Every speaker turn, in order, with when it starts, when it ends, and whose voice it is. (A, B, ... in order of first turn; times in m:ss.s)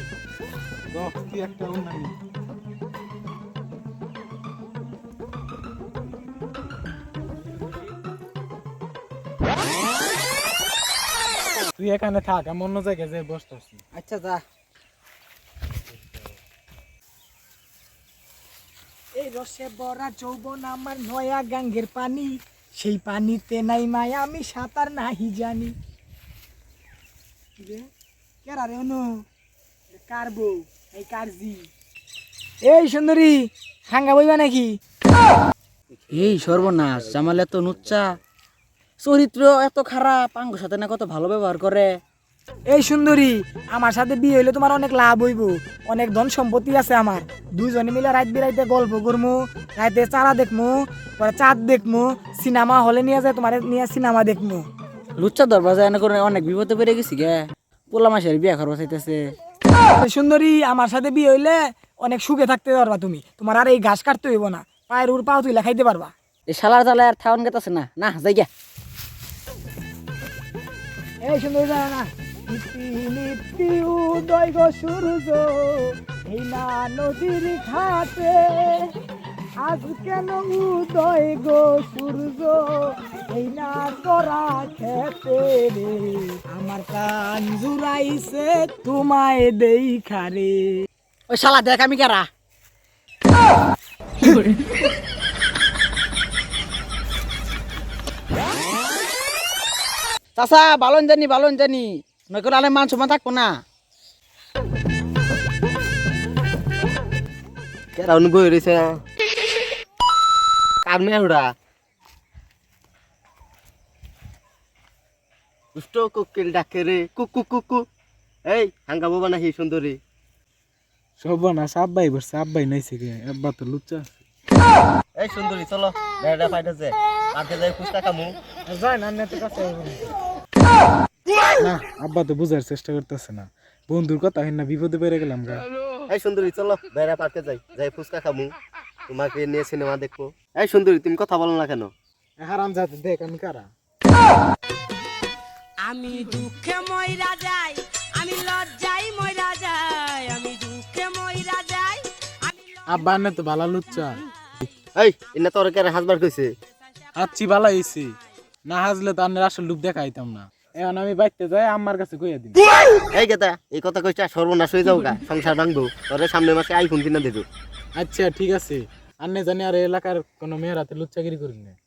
0:00.9-0:02.1 A
0:11.7-0:13.8 A
0:13.9-0:14.4 B
0:19.2-0:25.7 C
0:27.6-0:27.9 C
0:28.4-0:29.2 C
0:29.9-0:31.7 C
0:32.6-0:34.8 C
0:36.1-0:37.6 D
0:36.1-0:38.2 B
0:39.0-0:42.0 B
0:42.7-0:54.7 C
0:55.2-0:59.2 B
1:00.0-1:06.1 C
1:06.5-1:08.5 B
1:11.2-1:18.9 C
1:19.6-1:30.9 C
1:31.3-1:32.3 B
1:40.4-1:43.5 B
1:48.0-1:49.0 D
1:50.8-1:51.5 D
1:55.7-1:57.8 D
1:58.5-2:00.0 D
2:01.2-2:04.2 A
2:05.2-2:08.4 D
2:08.7-2:10.0 A
2:11.6-2:15.6 A
2:16.1-2:18.5 D
2:19.1-2:21.9 D
2:22.4-2:23.7 A
2:25.8-2:32.8 E
2:32.9-2:34.2 A
2:34.9-2:36.5 D
2:37.2-2:38.2 A
2:38.7-2:42.6 A
2:43.1-2:47.4 D
2:48.0-2:51.8 A